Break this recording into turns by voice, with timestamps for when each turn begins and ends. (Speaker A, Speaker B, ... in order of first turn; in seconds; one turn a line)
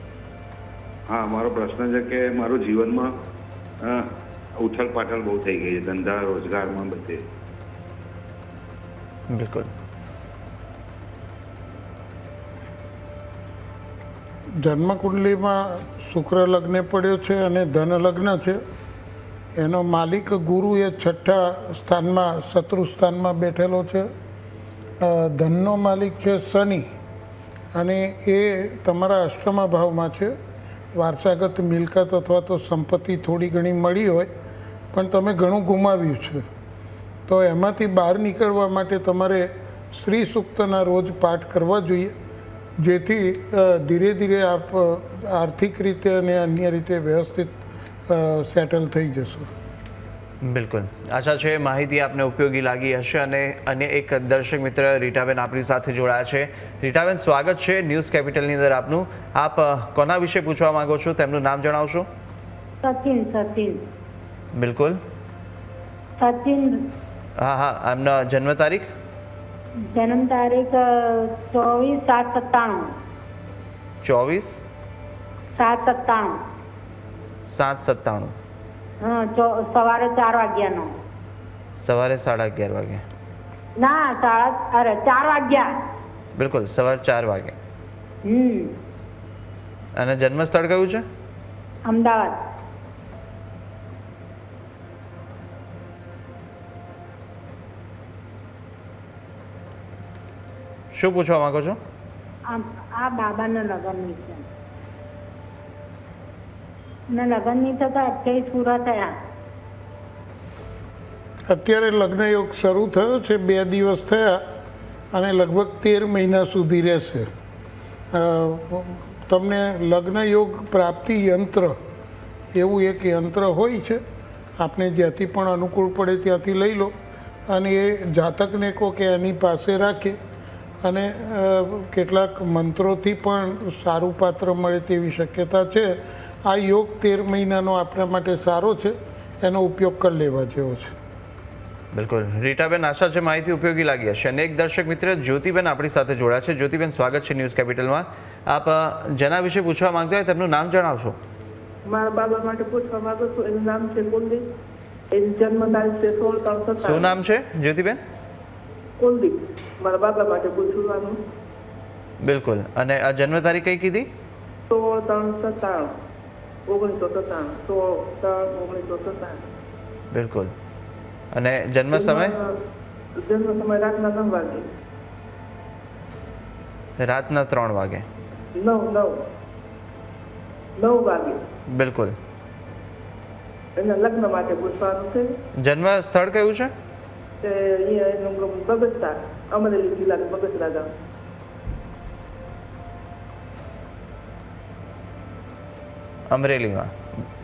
Speaker A: 1.1-3.1
Speaker A: 3.8-7.2
Speaker B: 9.3-9.7
Speaker C: 14.6-18.6
Speaker C: 19.6-24.1
Speaker C: 25.0-26.9
Speaker C: 27.7-30.3
Speaker C: 30.9-34.3
Speaker C: 34.9-36.4
Speaker C: 37.3-42.1
Speaker C: 42.8-47.5
Speaker C: 48.1-49.5
Speaker B: 50.4-62.1
Speaker D: 62.8-63.8
Speaker B: 64.5-65.0
Speaker D: 66.2-66.8
Speaker B: 67.4-68.9
Speaker D: 69.9-72.9
Speaker B: 74.0-74.6
Speaker D: 75.6-76.4
Speaker B: 77.4-78.3
Speaker D: 79.0-80.9
Speaker B: 81.8-83.0
Speaker D: 83.8-85.8
Speaker B: 86.3-87.5
Speaker D: 88.2-88.7
Speaker B: 90.0-91.0
Speaker D: 91.8-92.4
Speaker B: 100.9-101.8
Speaker D: 102.5-104.5
Speaker D: 107.1-109.1
Speaker C: 111.5-114.4
Speaker C: 115.1-117.3
Speaker C: 118.1-121.8
Speaker C: 122.5-124.0
Speaker C: 124.6-126.9
Speaker C: 127.5-130.2
Speaker C: 130.8-140.9
Speaker B: 141.9-151.2
Speaker E: 151.9-154.4
Speaker E: 155.1-157.2
Speaker B: 156.8-158.0
Speaker E: 159.0-161.2
Speaker B: 162.2-164.1
Speaker E: 164.7-165.9
Speaker E: 166.7-169.4
Speaker B: 170.1-170.5
Speaker B: 171.3-172.3
Speaker E: 171.9-172.6
Speaker E: 173.2-174.6
Speaker B: 177.0-178.1
Speaker E: 178.6-179.2
Speaker E: 180.8-181.4
Speaker B: 181.7-182.2
Speaker E: 183.8-185.3
Speaker B: 185.6-186.7
Speaker E: 187.4-190.9
Speaker B: 196.3-196.9